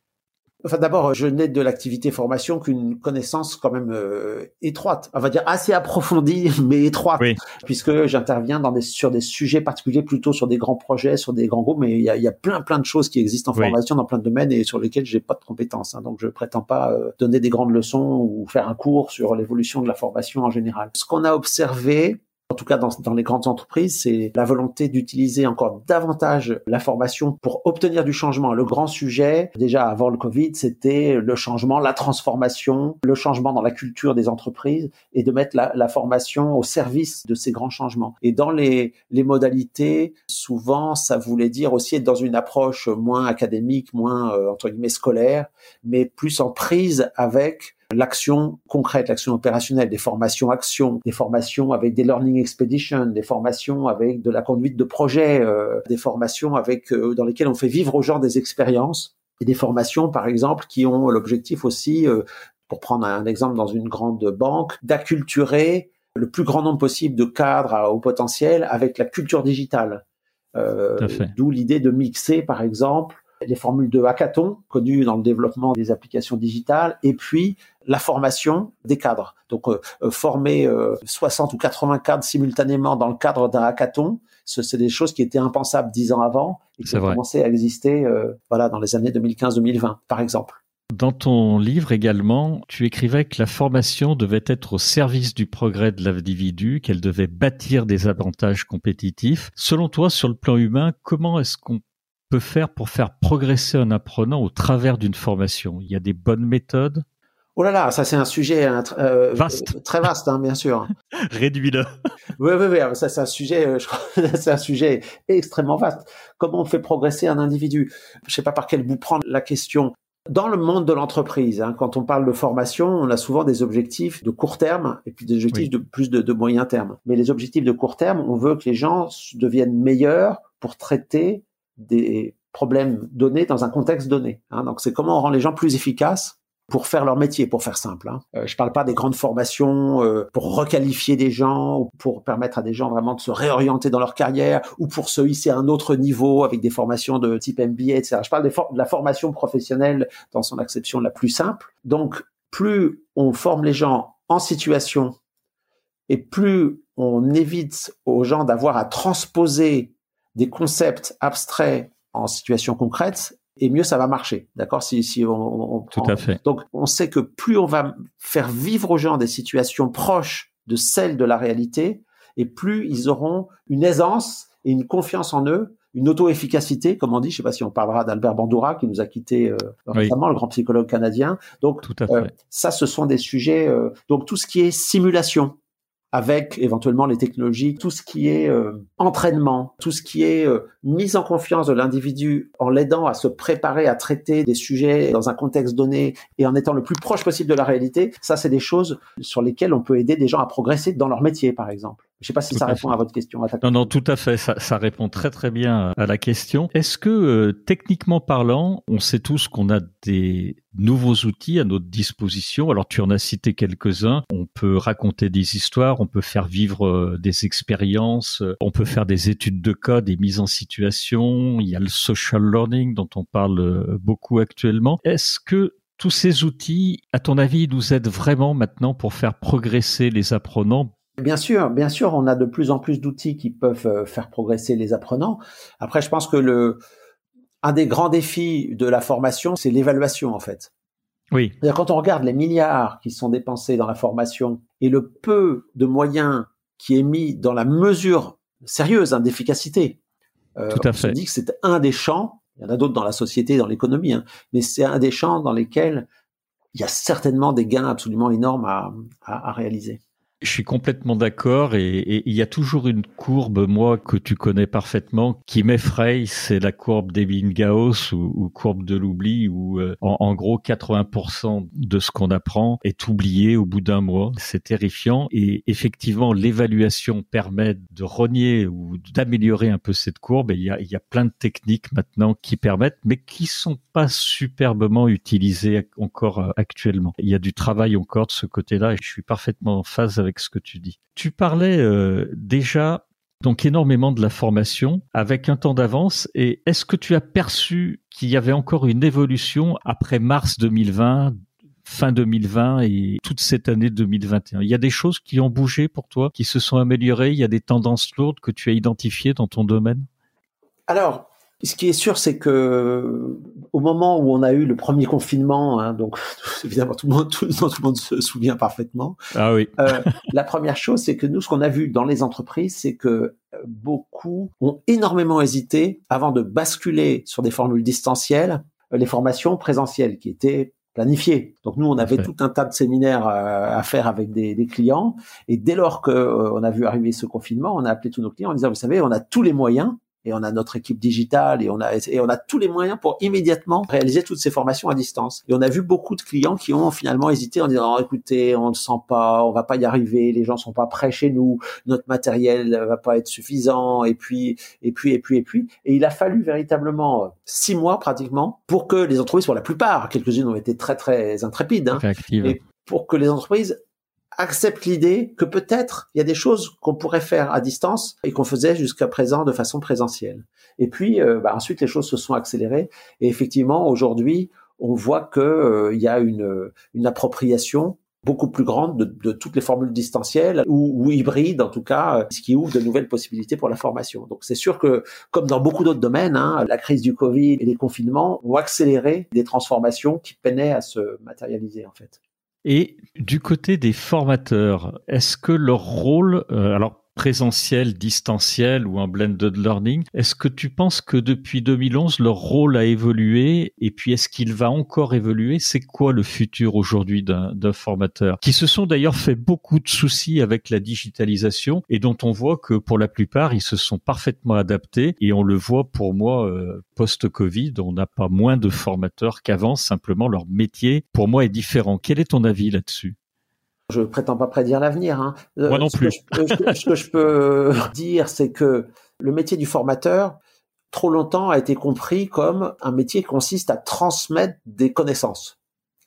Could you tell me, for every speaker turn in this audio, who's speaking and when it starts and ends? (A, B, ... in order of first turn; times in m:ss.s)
0:00.6-1:10.0 A
1:10.6-1:30.6 A
1:11.0-1:11.3 B
1:26.8-1:27.2 B
1:30.9-1:47.0 B
1:47.6-1:50.9 A
1:49.3-1:49.7 B
1:51.2-1:51.9 B
1:52.4-2:35.2 A
2:36.1-3:05.5 A
2:45.9-2:46.4 B
3:01.8-3:02.3 B
3:06.1-3:23.9 A
3:22.5-3:22.9 B
3:23.6-3:50.9 B
3:51.2-3:56.8 A
3:57.6-4:00.7 A
4:01.6-4:10.0 A
4:10.6-4:16.1 A
4:10.7-4:11.2 B
4:16.7-4:20.0 A
4:20.4-5:01.3 B
5:01.8-5:10.1 B
5:10.9-5:19.2 A
5:19.3-5:20.2 B
5:19.8-6:03.8 A
6:02.0-6:02.6 B
6:04.4-6:32.2 A
6:32.6-7:03.2 B
7:03.9-7:10.4 A
7:05.7-7:06.8 B
7:10.9-7:15.6 A